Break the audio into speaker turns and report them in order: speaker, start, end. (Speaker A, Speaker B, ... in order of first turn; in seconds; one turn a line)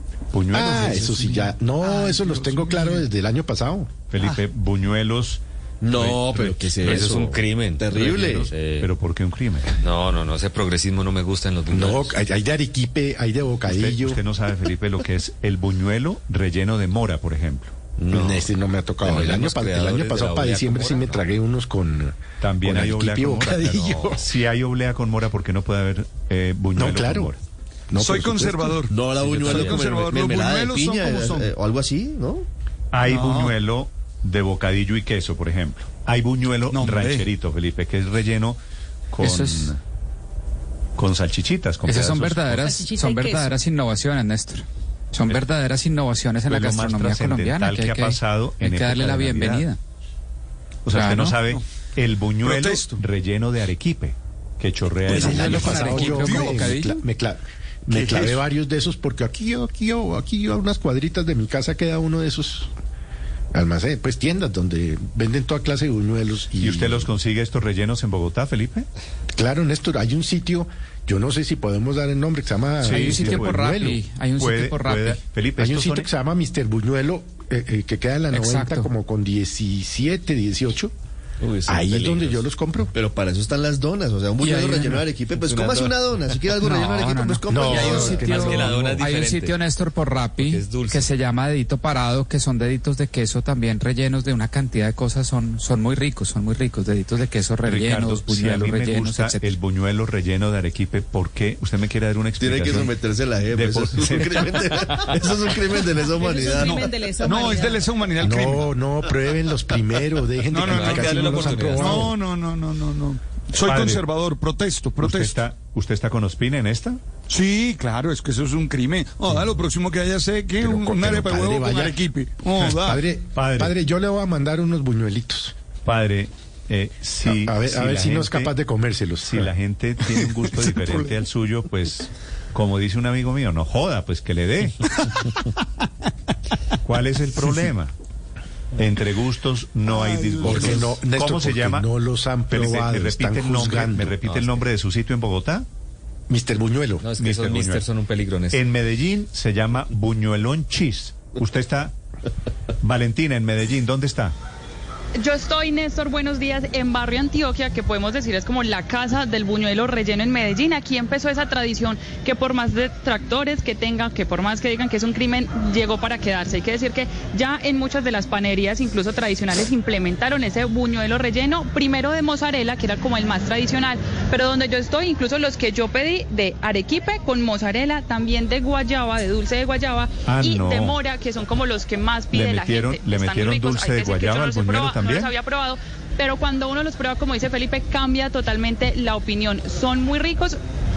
Speaker A: 0.3-1.1
Speaker B: 0.5-3.9
Speaker A: 4.1-6.5
Speaker C: 5.8-8.5
Speaker D: 6.5-8.9
Speaker A: 8.5-9.8
Speaker D: 9.8-12.2
Speaker B: 11.7-14.2
Speaker A: 13.6-17.7
Speaker D: 18.0-21.3
Speaker B: 18.1-24.2
Speaker A: 22.4-27.4
Speaker D: 23.6-24.2
Speaker B: 26.8-27.3
Speaker B: 27.9-28.8
Speaker E: 28.0-31.4
Speaker C: 28.9-32.5
Speaker D: 29.5-29.8
Speaker A: 32.9-38.6
Speaker E: 33.0-33.5
Speaker E: 36.7-37.3
Speaker A: 39.1-39.8
Speaker F: 39.2-39.7
Speaker A: 41.0-42.7
Speaker F: 41.8-49.8
Speaker G: 42.6-43.5
Speaker A: 46.5-49.7
Speaker A: 50.8-55.5
Speaker F: 50.9-51.4
Speaker E: 52.4-53.0
Speaker B: 55.1-62.7
Speaker F: 55.1-57.0
Speaker E: 57.9-58.4
Speaker B: 63.5-67.1
Speaker A: 66.6-68.9
Speaker B: 69.3-74.0
Speaker A: 72.8-73.6
Speaker F: 72.9-75.2
Speaker A: 74.3-76.1
Speaker B: 75.6-80.9
Speaker F: 78.3-78.9
Speaker D: 81.4-82.5
Speaker B: 81.6-82.9
Speaker C: 82.9-88.3
Speaker B: 84.4-84.9
Speaker D: 85.3-86.4
Speaker F: 86.6-99.6
Speaker B: 87.5-89.1
Speaker D: 87.7-89.6
Speaker D: 90.4-91.1
Speaker A: 97.6-103.0
Speaker C: 102.4-107.0
Speaker A: 103.5-105.3
Speaker G: 106.2-107.9
Speaker E: 107.3-108.7
Speaker B: 108.2-112.1
Speaker E: 110.5-115.3
Speaker D: 110.7-112.1
Speaker A: 113.6-114.0
Speaker A: 115.0-117.0
Speaker E: 117.3-123.0
Speaker B: 120.6-122.0
Speaker B: 122.6-125.5
Speaker A: 123.3-123.8
Speaker A: 125.8-128.6
Speaker B: 127.2-129.5
Speaker A: 129.2-134.8
Speaker A: 136.8-137.9
Speaker A: 138.8-141.9
Speaker B: 140.4-144.2
Speaker A: 142.5-145.6
Speaker D: 144.2-144.6
Speaker B: 146.3-147.1
Speaker D: 147.0-148.6
Speaker A: 147.2-147.8
Speaker A: 148.5-152.0
Speaker A: 152.8-154.3
Speaker H: 155.2-190.6
Speaker A: 180.2-181.0
Speaker A: 182.3-185.3